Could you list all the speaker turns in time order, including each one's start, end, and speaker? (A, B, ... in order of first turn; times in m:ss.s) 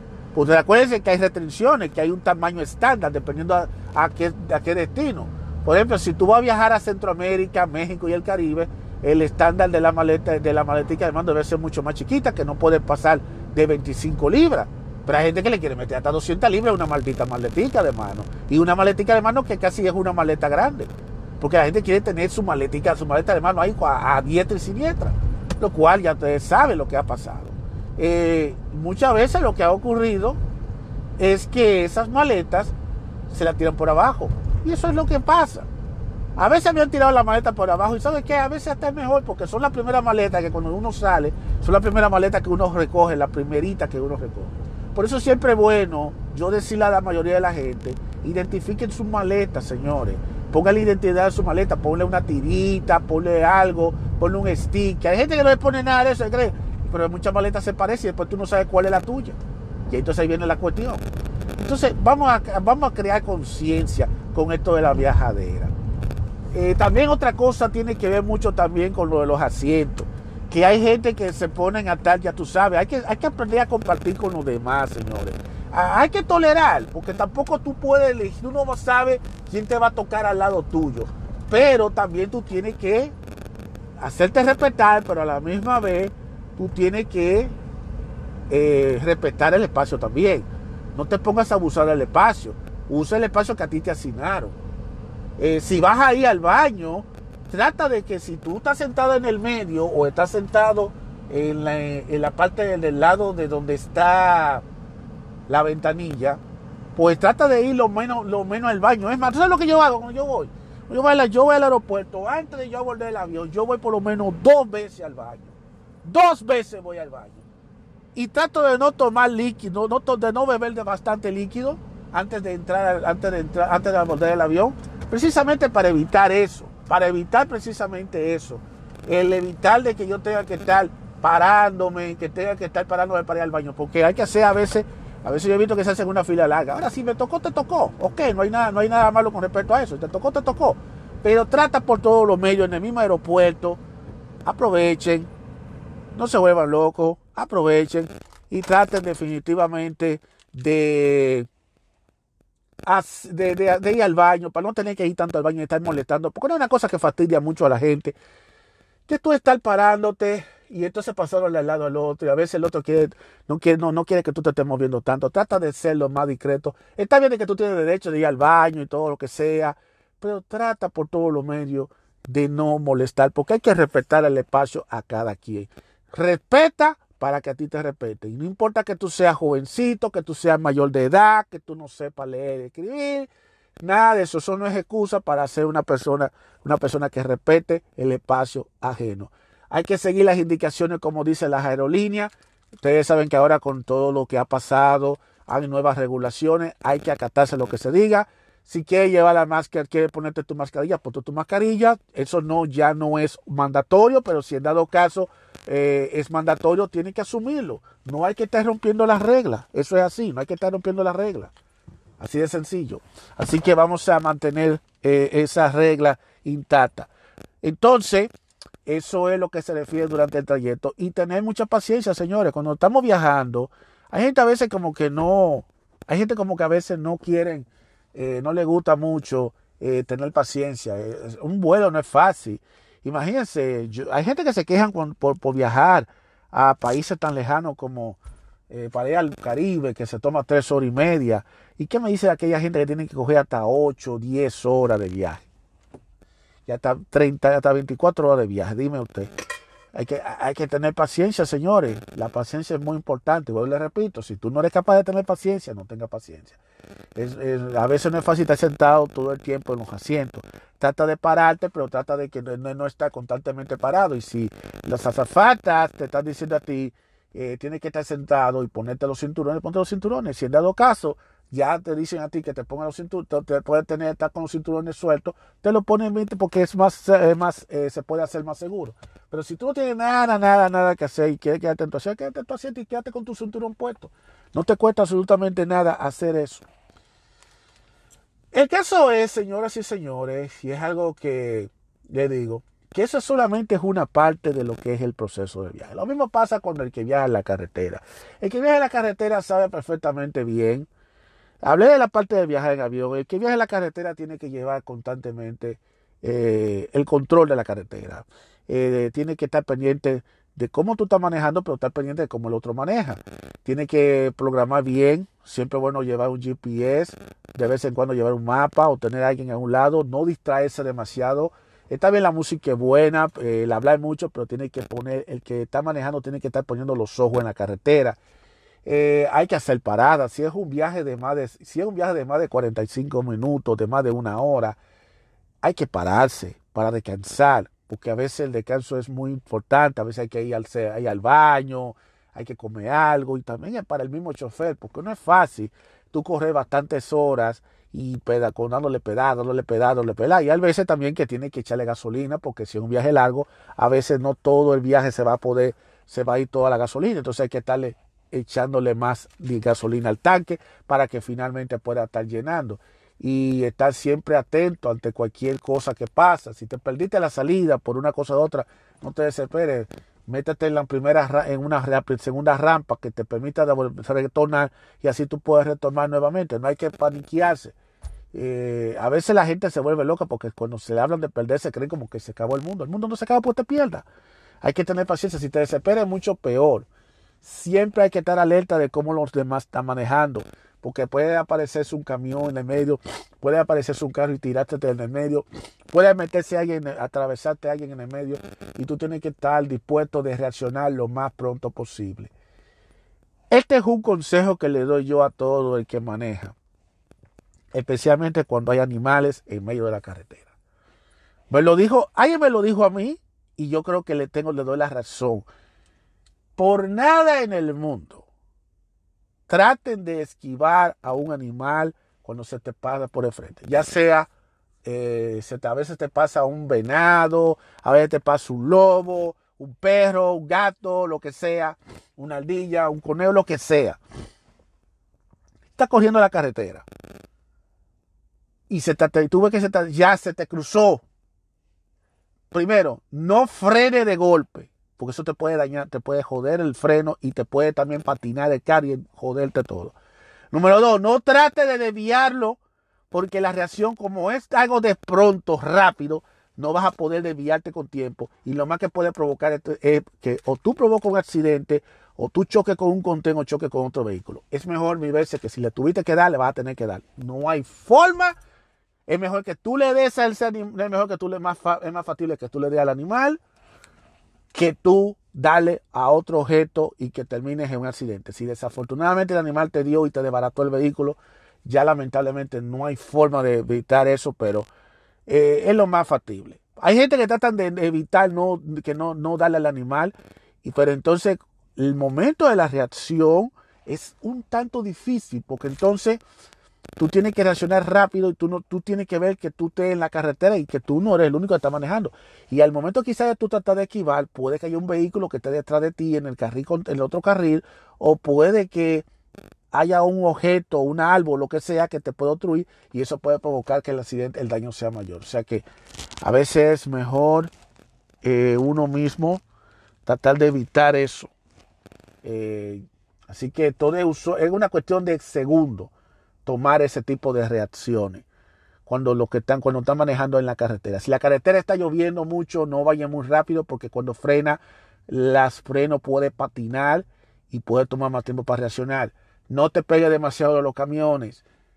0:00.3-0:30.4 A
0:31.2-0:32.7 A
0:33.3-0:35.7 A
0:36.4-0:59.4 A
0:59.9-1:01.0 A
1:01.6-1:05.7 A
1:06.5-1:23.2 A
1:24.0-1:27.5 A
1:28.5-1:34.6 A
1:35.4-1:44.6 A
1:45.5-1:46.4 A
1:47.0-1:57.5 A
1:58.2-2:23.8 A
2:24.5-2:25.3 A
2:26.1-2:31.5 A
2:32.8-2:38.2 A
2:39.1-3:03.3 A
3:03.8-3:31.5 A
3:32.2-3:37.1 A
3:37.6-3:38.3 A
3:38.9-3:58.2 A
3:58.7-4:05.4 A
4:06.7-4:09.3 A
4:09.9-4:16.6 A
4:17.2-4:46.7 A
4:48.5-5:00.9 A
5:01.6-5:28.2 A
5:28.8-5:34.8 A
5:35.6-6:17.8 A
6:18.3-6:24.0 A
6:24.6-6:26.9 A
6:27.4-6:42.3 A
6:43.5-6:46.6 A
6:47.7-6:50.5 A
6:51.5-6:55.5 A
6:56.6-6:58.3 A
6:59.5-7:04.3 A
7:04.8-7:14.0 A
7:15.8-7:16.8 A
7:18.7-7:21.0 A
7:22.5-7:30.0 A
7:30.5-7:32.6 A
7:33.1-7:48.4 A
7:49.1-7:53.4 A
7:54.5-8:04.7 A
8:05.3-8:16.2 A
8:17.0-8:29.0 A
8:29.7-8:35.6 A
8:36.2-8:37.5 A
8:38.2-8:39.4 A
8:40.0-8:41.3 A
8:42.2-8:45.9 A
8:46.4-8:48.2 A
8:48.9-9:01.4 A